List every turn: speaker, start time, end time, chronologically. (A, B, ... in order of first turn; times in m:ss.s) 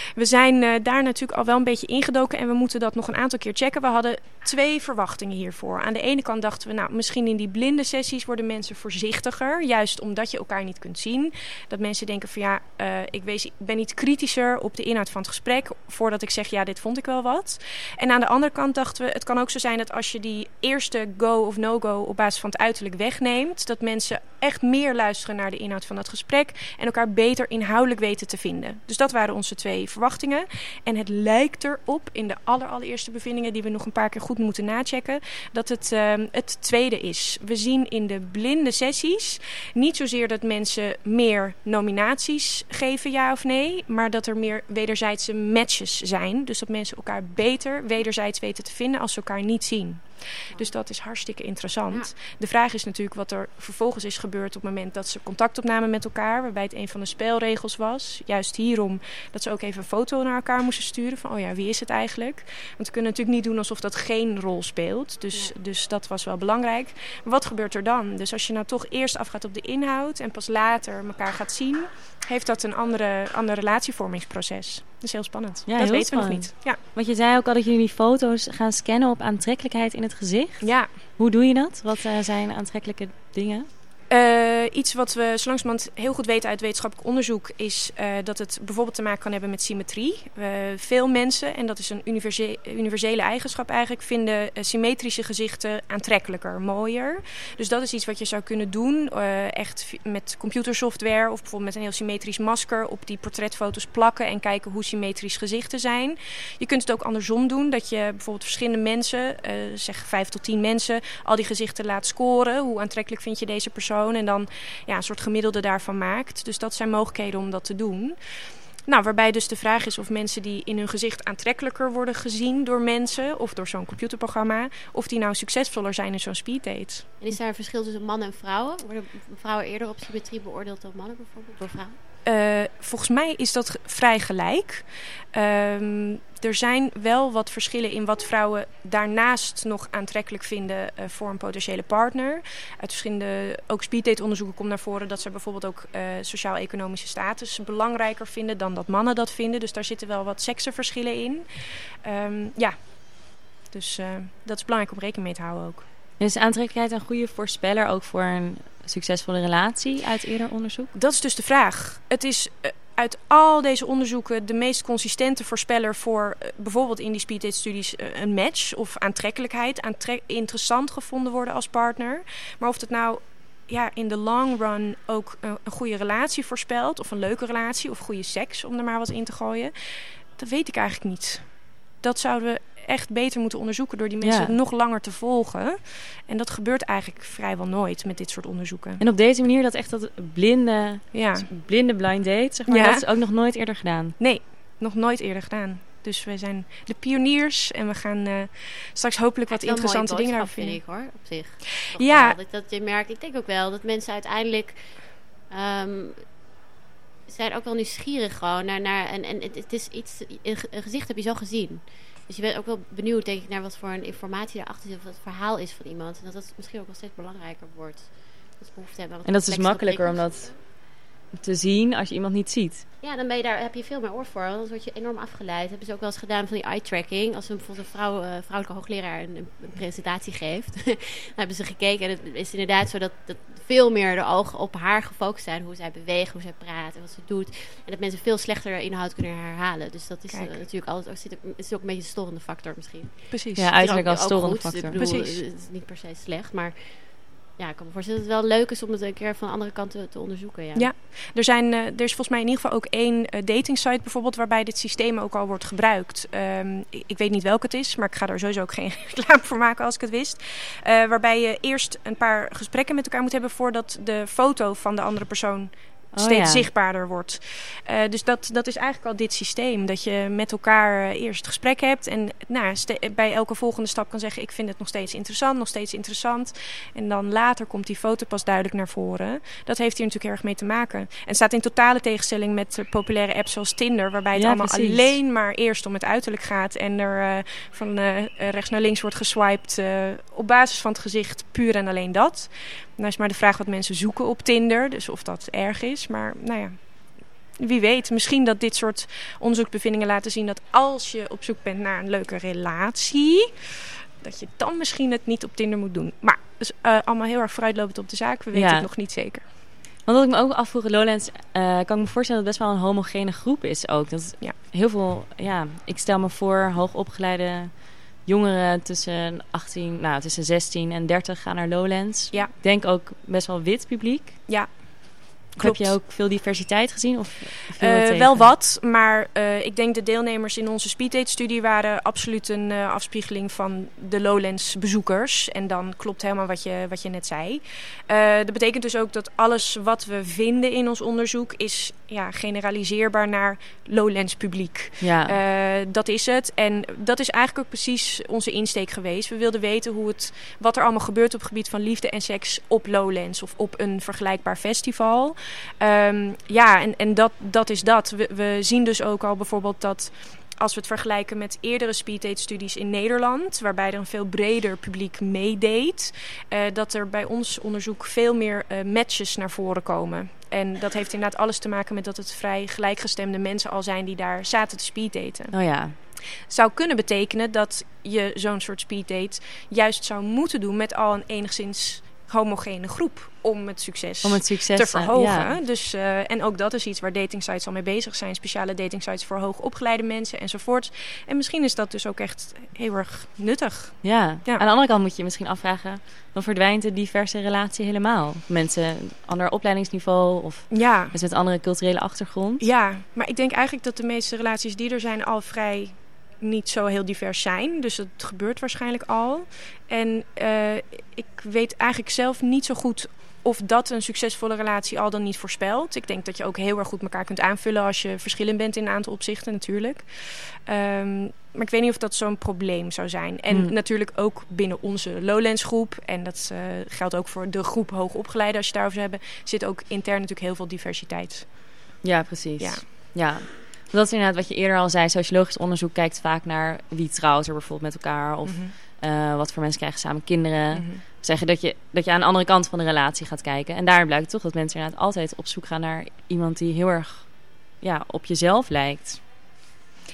0:00.2-1:16.8 A
1:15.7-1:23.7 B
1:20.6-1:21.0 A
1:24.1-1:58.2 A
1:58.9-2:07.1 A
2:07.2-2:12.0 C
2:12.2-2:35.9 A
2:36.2-2:40.9 B
2:40.9-3:09.0 A
3:04.2-3:04.6 B
3:09.0-3:14.2 B
3:11.1-3:11.5 A
3:12.7-3:13.0 A
3:14.2-3:20.8 A
3:19.5-3:26.2 C
3:21.6-3:22.4 A
3:27.3-3:40.6 C
3:39.2-3:40.5 B
3:41.4-3:42.8 B
3:43.0-4:07.1 C
4:00.3-4:00.6 A
4:03.3-4:03.8 A
4:03.6-4:05.1 B
4:04.9-4:05.4 A
4:07.6-4:10.9 C
4:10.8-5:03.7 A
4:26.1-4:26.7 B
4:44.3-4:45.2 B
5:04.2-5:09.5 A
5:08.5-5:08.9 B
5:10.0-5:24.8 B
5:24.5-5:26.0 A
5:25.6-5:28.5 B
5:27.7-6:15.6 A
5:45.0-5:45.4 B
6:15.5-6:16.0 B
6:16.5-6:34.6 A
6:24.2-6:25.5 B
6:34.0-6:42.6 B
6:40.7-6:41.2 A
6:42.6-7:11.7 A
7:12.0-7:29.2 B
7:12.6-7:12.8 A
7:18.4-7:18.8 A
7:20.7-7:21.0 A